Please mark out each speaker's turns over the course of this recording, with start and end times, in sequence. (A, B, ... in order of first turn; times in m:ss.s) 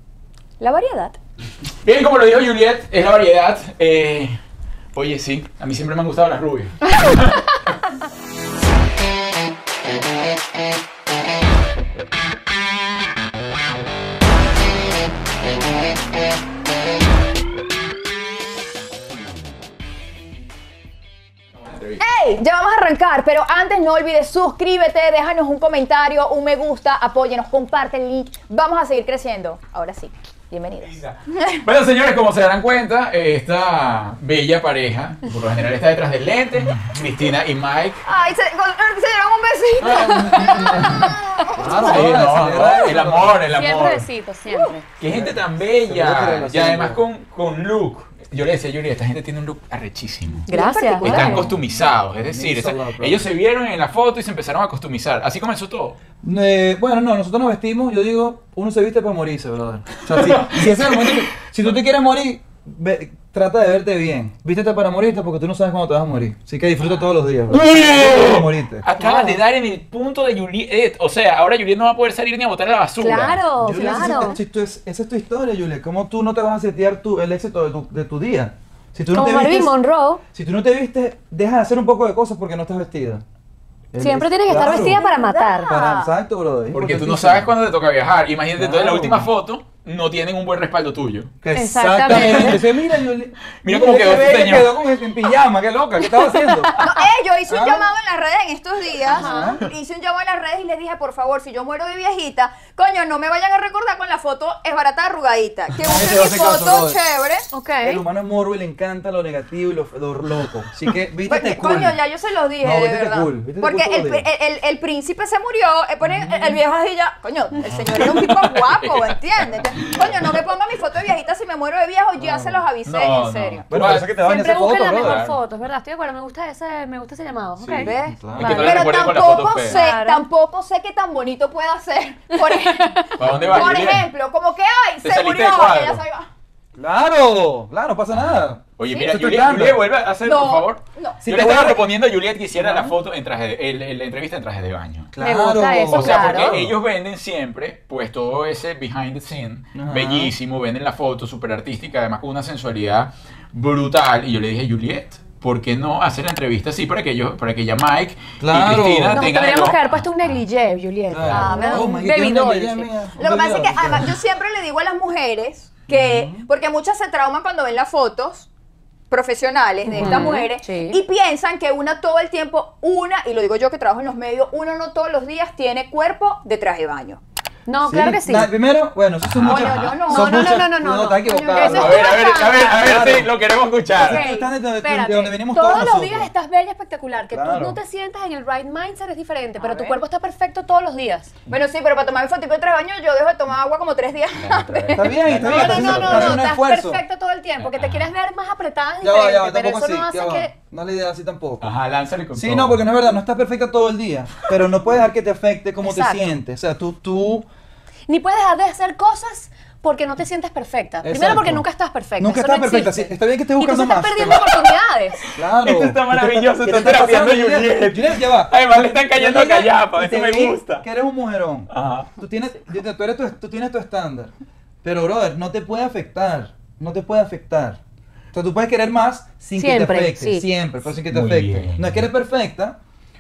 0:00.6-0:01.2 A
0:01.8-0:04.4 B
0:05.0-0:07.6 B
0:21.6-0:22.0 B
0:22.0-0:31.6 A
0:30.8-0:38.0 B
0:36.6-0:37.0 C
0:38.1-0:42.7 A
0:39.8-0:43.4 C
0:40.0-0:40.9 B
0:41.6-0:44.0 B
0:43.5-0:44.8 D
0:44.5-0:44.8 A
0:45.0-0:50.5 B
0:45.1-0:47.0 C
0:50.5-0:51.4 D
0:50.5-0:51.5 A
0:51.0-0:56.0 B
0:51.2-0:51.6 C
0:52.2-0:53.2 C
0:56.2-1:08.9 C
1:00.1-1:01.2 B
1:07.5-1:13.9 B
1:08.9-1:09.4 D
1:13.0-1:14.4 D
1:13.6-1:19.7 C
1:19.1-1:20.2 D
1:20.3-1:23.2 C
1:23.9-1:25.0 C
1:24.0-1:25.8 D
1:24.6-1:26.1 A
1:25.6-1:27.5 C
1:26.7-1:31.3 B
1:28.6-1:29.3 C
1:31.4-1:36.8 C
1:31.6-1:32.6 D
1:32.0-1:32.7 B
1:33.6-1:34.8 B
1:36.2-1:36.8 D
1:36.8-1:47.5 A
1:37.5-1:37.9 C
1:39.1-1:39.6 D
1:39.1-1:39.7 C
1:45.8-1:47.0 C
1:47.5-1:48.0 D
1:47.8-1:52.0 C
1:51.3-2:03.6 A
1:52.6-1:54.2 C
1:56.0-1:56.6 C
1:57.6-2:00.4 B
2:02.2-2:02.6 C
2:02.8-2:04.2 B
2:03.7-2:05.2 C
2:04.2-2:08.8 D
2:04.8-2:05.4 B
2:07.7-2:08.9 C
2:07.8-2:16.3 A
2:08.4-2:09.8 B
2:09.6-2:10.2 D
2:12.5-2:13.1 D
2:13.2-2:14.1 B
2:13.2-2:13.8 C
2:15.0-2:16.0 B
2:16.8-2:19.8 C
2:18.1-2:25.1 B
2:20.2-2:21.2 A
2:21.2-2:21.9 C
2:22.5-2:23.0 C
2:25.1-2:26.8 C
2:25.2-2:26.6 D
2:25.8-2:40.3 B
2:29.7-2:30.3 C
2:38.4-2:39.3 C
2:39.1-2:42.9 D
2:41.1-2:44.1 C
2:41.2-2:41.5 B
2:41.5-2:41.9 A
2:43.2-2:48.5 A
2:45.9-2:46.5 C
2:49.1-2:57.2 A
2:49.9-2:51.0 D
2:49.9-2:50.3 C
2:57.7-2:58.5 D
2:57.8-3:02.1 C
2:59.2-3:00.0 B
2:59.4-3:00.7 A
3:00.1-3:02.7 D
3:01.5-3:02.2 A
3:01.6-3:04.2 B
3:02.6-3:03.4 C
3:03.9-3:06.3 C
3:04.0-3:11.3 D
3:07.3-3:07.8 C
3:09.6-3:10.0 A
3:11.5-3:16.1 A
3:14.4-3:16.4 B
3:14.9-3:17.0 C
3:15.4-3:20.5 D
3:17.6-3:18.1 B
3:19.0-3:21.7 C
3:21.6-3:22.9 B
3:22.4-3:27.5 C
3:25.8-3:26.3 D
3:28.1-3:35.2 D
3:31.0-3:31.6 C
3:32.2-3:34.6 C
3:35.2-3:40.8 B
3:35.4-3:44.3 C
3:41.7-3:42.1 B
3:44.8-3:47.8 C
3:48.3-3:52.8 C
3:49.6-3:50.5 D
3:51.1-3:52.0 B